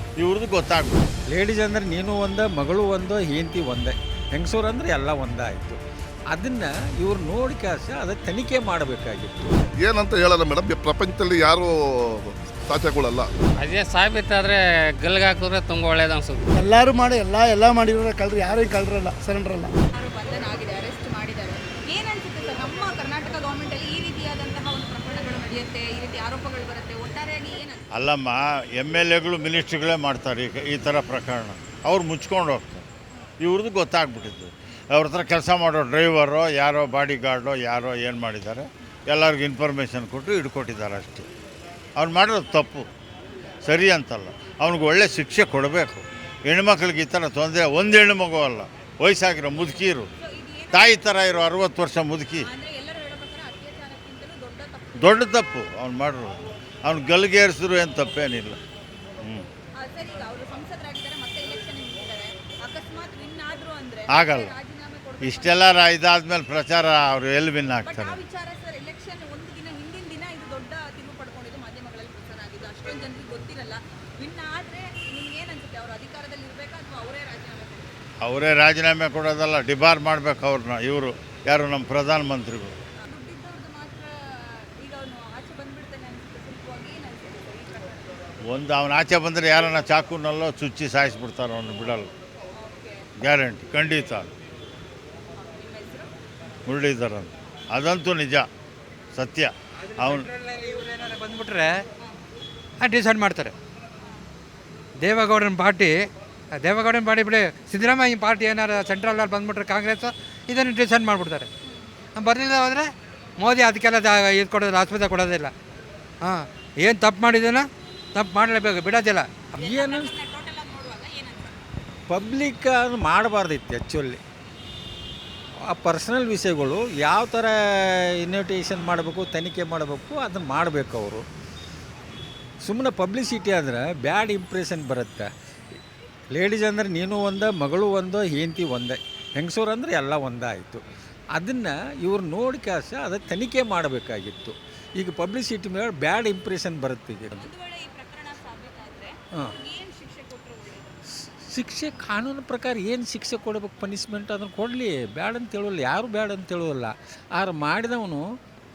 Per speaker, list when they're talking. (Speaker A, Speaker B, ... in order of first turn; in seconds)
Speaker A: 0.2-1.1, 27.9-32.8, 33.4-41.3, 42.0-42.9, 43.6-50.1, 50.7-52.5, 55.0-58.6, 59.2-59.5, 64.1-64.5, 65.2-68.2, 78.2-82.8, 88.5-92.1, 93.2-94.3, 96.7-98.5, 99.1-100.3
Speaker B: 1.3-9.5, 119.7-120.1, 122.1-124.2, 125.6-131.2, 132.6-135.3, 136.3-140.8, 141.3-147.5, 151.2-158.4
Speaker C: 9.8-13.3
Speaker D: 13.6-16.4
Speaker E: 16.5-19.7
Speaker F: 19.9-27.9, 50.2-51.1, 52.4-55.3, 59.8-65.8, 67.8-78.0, 83.0-88.1, 92.6-93.0, 95.3-96.1, 102.0-102.2, 104.0-104.2, 111.6-112.0, 119.5-121.6, 147.3-151.0
Speaker G: 99.9-101.8, 102.8-103.5, 105.0-111.5, 112.2-115.5, 116.2-119.3